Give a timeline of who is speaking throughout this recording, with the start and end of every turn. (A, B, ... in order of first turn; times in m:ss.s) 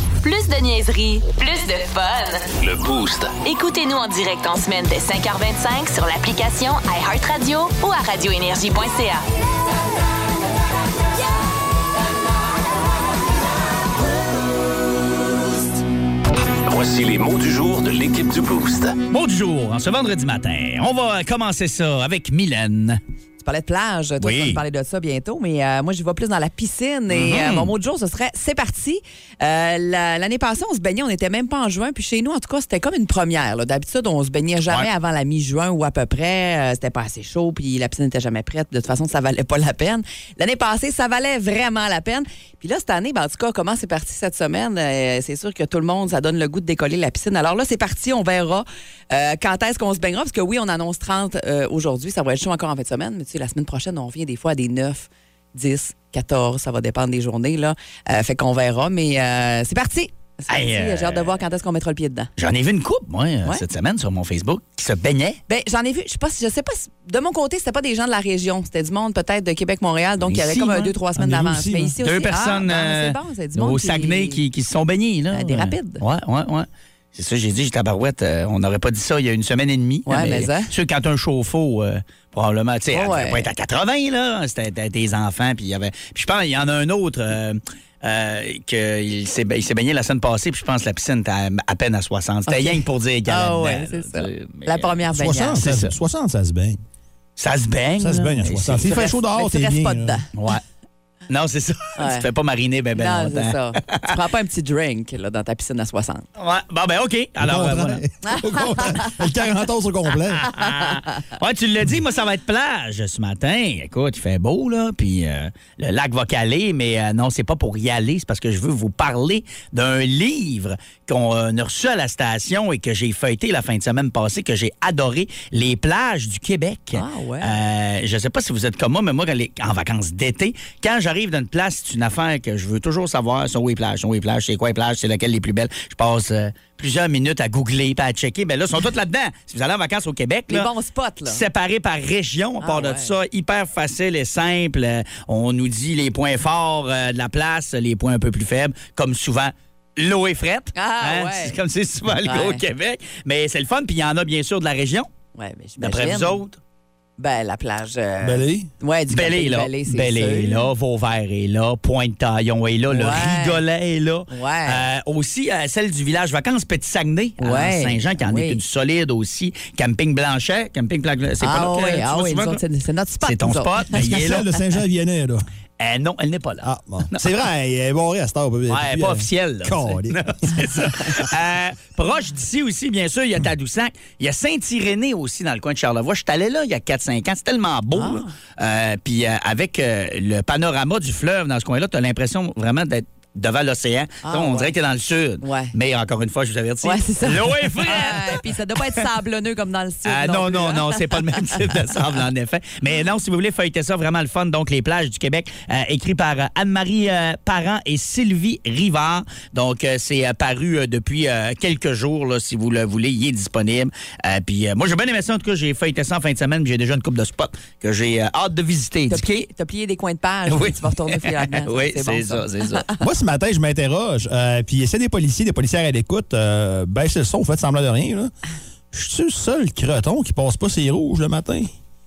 0:00.2-0:02.5 A
0:02.6-0:03.4 B
0:03.4-0:09.2 A
0:16.6-0:19.0 B
0:19.1-0:23.0 C
0:23.4-1:02.3 D
0:24.2-0:24.6 C
0:27.1-0:27.7 C
1:00.5-1:01.4 C
1:02.4-1:05.4 C
1:05.5-1:14.4 D
1:10.2-1:10.9 C
1:11.2-1:11.9 E
1:12.0-1:35.0 C
1:15.3-1:16.0 D
1:20.0-1:20.7 D
1:22.9-1:23.5 D
1:32.5-1:35.6 D
1:35.1-1:36.8 E
1:35.6-1:35.9 C
1:37.4-1:38.9 C
1:38.0-1:40.2 E
1:38.8-1:40.3 D
1:40.3-1:40.6 C
1:41.3-1:44.1 C
1:42.0-1:42.2 D
1:43.0-1:46.3 D
1:46.4-1:48.0 C
1:47.4-1:50.5 E
1:48.2-1:49.1 D
1:50.3-2:20.7 C
1:50.6-1:51.1 D
2:06.9-2:07.5 D
2:20.5-2:21.4 D
2:21.2-2:35.1 C
2:22.6-2:23.1 D
2:30.7-2:31.6 D
2:32.2-2:32.6 D
2:35.4-2:36.4 D
2:35.8-2:36.6 C
2:37.2-2:40.6 D
2:38.2-2:38.7 E
2:39.1-2:52.6 C
2:42.9-2:43.6 D
2:44.3-2:44.8 D
2:47.4-2:48.6 D
2:51.4-2:54.1 D
2:53.2-2:54.4 C
2:53.9-2:55.4 E
2:55.8-2:57.3 C
2:56.6-3:01.2 E
2:58.7-3:18.5 C
3:07.9-3:08.3 D
3:14.2-3:14.7 D
3:15.4-3:15.7 D
3:16.8-3:21.5 D
3:20.0-3:39.4 C
3:39.1-3:43.0 D
3:40.5-3:42.9 C
3:43.0-3:48.3 E
3:48.9-3:51.7 E